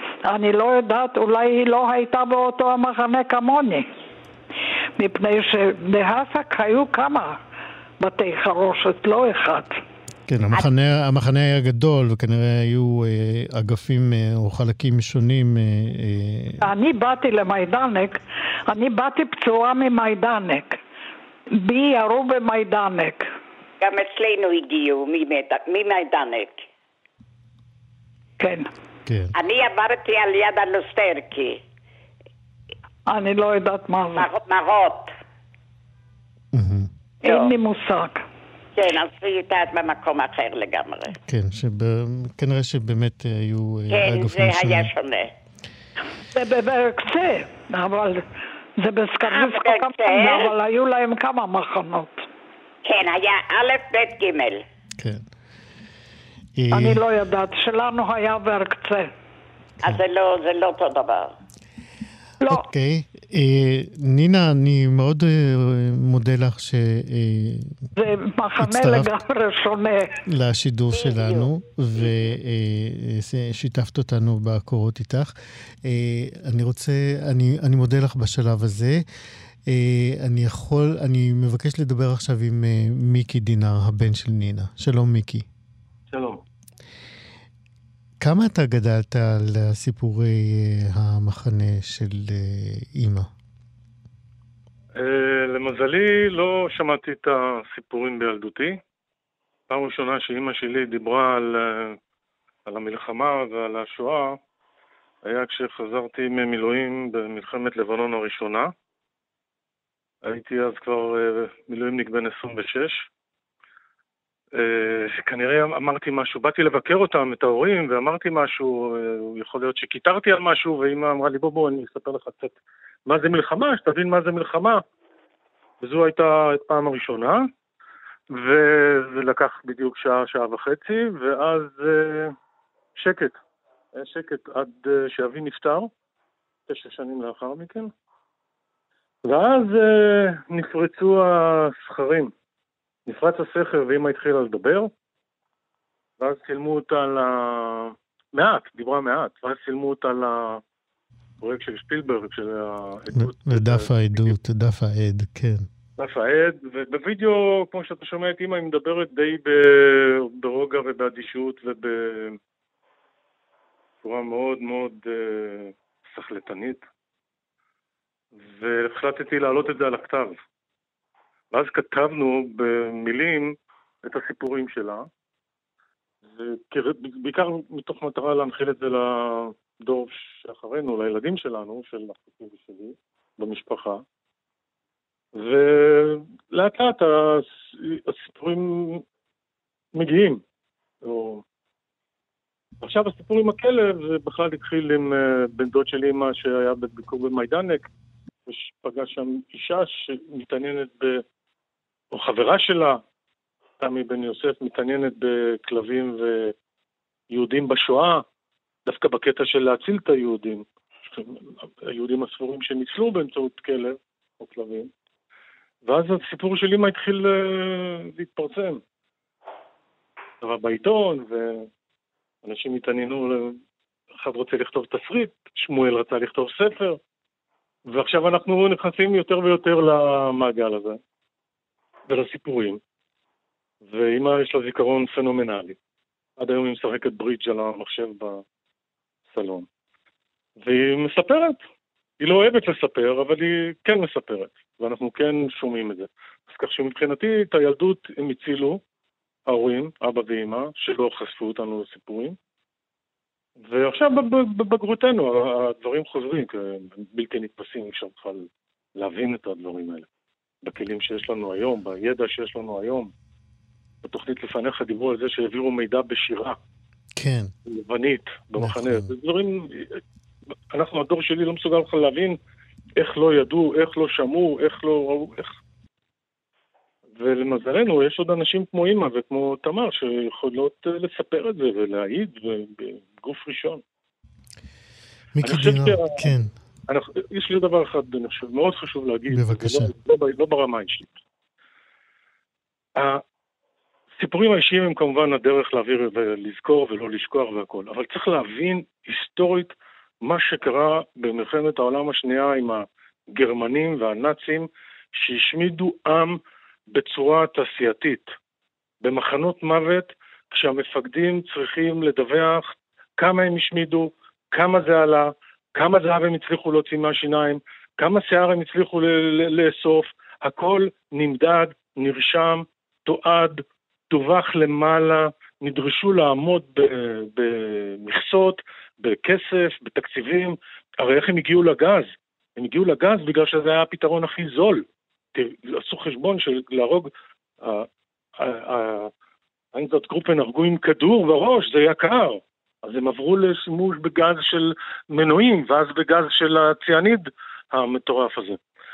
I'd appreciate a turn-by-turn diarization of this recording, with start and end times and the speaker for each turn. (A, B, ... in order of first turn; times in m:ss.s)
0:00.2-0:03.9 A
0:05.0-0:07.4 A
0:08.0-0:09.8 A
0:10.3-0:16.7 B
0:16.6-0:20.8 A
0:21.5-0:23.3 A
0:23.8-0:26.6 C
0:28.4-0:28.7 A
0:29.1-0:29.3 B
0:29.4-0:31.6 C
0:33.1-0:34.3 A
0:34.2-0:35.1 C
0:36.5-0:36.9 B
0:37.2-0:38.2 A
0:37.2-0:37.5 C
0:38.8-0:41.2 C
0:41.3-0:44.9 B
0:43.9-0:45.3 C
0:46.3-0:48.2 A
0:48.8-0:52.2 A
0:49.2-0:50.5 C
0:52.8-0:54.6 C
0:55.0-0:55.2 B
0:56.6-0:57.0 B
0:56.7-0:59.1 A
0:59.8-1:01.4 C
1:02.5-1:07.8 B
1:08.0-1:10.1 A
1:08.6-1:09.1 B
1:10.3-1:15.3 B
1:10.9-1:11.5 C
1:15.8-1:19.0 B
1:19.7-1:25.5 B
1:26.1-1:26.4 D
1:28.2-1:33.3 B
1:35.0-1:38.8 D
1:39.7-1:42.0 D
1:42.7-1:44.4 D
1:45.2-1:48.7 D
1:50.2-1:53.1 D
1:54.6-2:02.6 D
2:03.1-2:04.8 D
2:05.8-2:07.4 D
2:08.3-2:12.3 D
2:13.0-2:13.4 D
2:13.9-2:15.9 D
2:16.7-2:17.9 D
2:19.2-2:22.3 D
2:23.1-2:24.9 D
2:26.2-2:30.6 D
2:31.4-2:34.3 D
2:33.1-2:35.7 B
2:36.0-2:42.4 D
2:44.0-2:46.8 D
2:48.5-2:50.4 D
2:51.5-2:55.1 D
2:56.3-3:04.0 D
3:05.4-3:09.0 D
3:10.0-3:10.4 D
3:11.0-3:11.4 D
3:12.8-3:17.9 D
3:18.5-3:21.2 D
3:22.1-3:23.0 D
3:23.8-3:26.5 D
3:27.3-3:28.2 D
3:28.9-3:34.9 D
3:35.8-3:38.8 D
3:40.4-3:41.7 D
3:42.4-3:43.6 D
3:44.2-3:47.0 D
3:47.9-3:51.0 D
3:52.1-3:52.8 D
3:53.8-3:55.8 D
3:56.4-3:58.4 D
3:59.3-3:59.7 D
4:00.6-4:01.6 D
4:02.2-4:08.8 D
4:09.5-4:12.4 D
4:13.6-4:20.1 D
4:20.6-4:23.1 D
4:24.0-4:26.6 D
4:27.2-4:27.5 B
4:27.7-4:30.0 D
4:28.6-4:29.1 B
4:30.7-4:32.4 D
4:33.0-4:35.6 D
4:37.2-4:43.8 D
4:45.4-4:46.5 B
4:45.4-4:46.2 D
4:46.9-4:51.1 D
4:49.3-4:49.9 B
4:53.0-4:53.2 D
4:54.2-5:06.4 D
5:06.9-5:08.3 D
5:09.0-5:34.8 D
5:35.4-5:37.1 D
5:37.6-5:37.9 D
5:38.4-5:39.1 D
5:39.7-5:48.6 D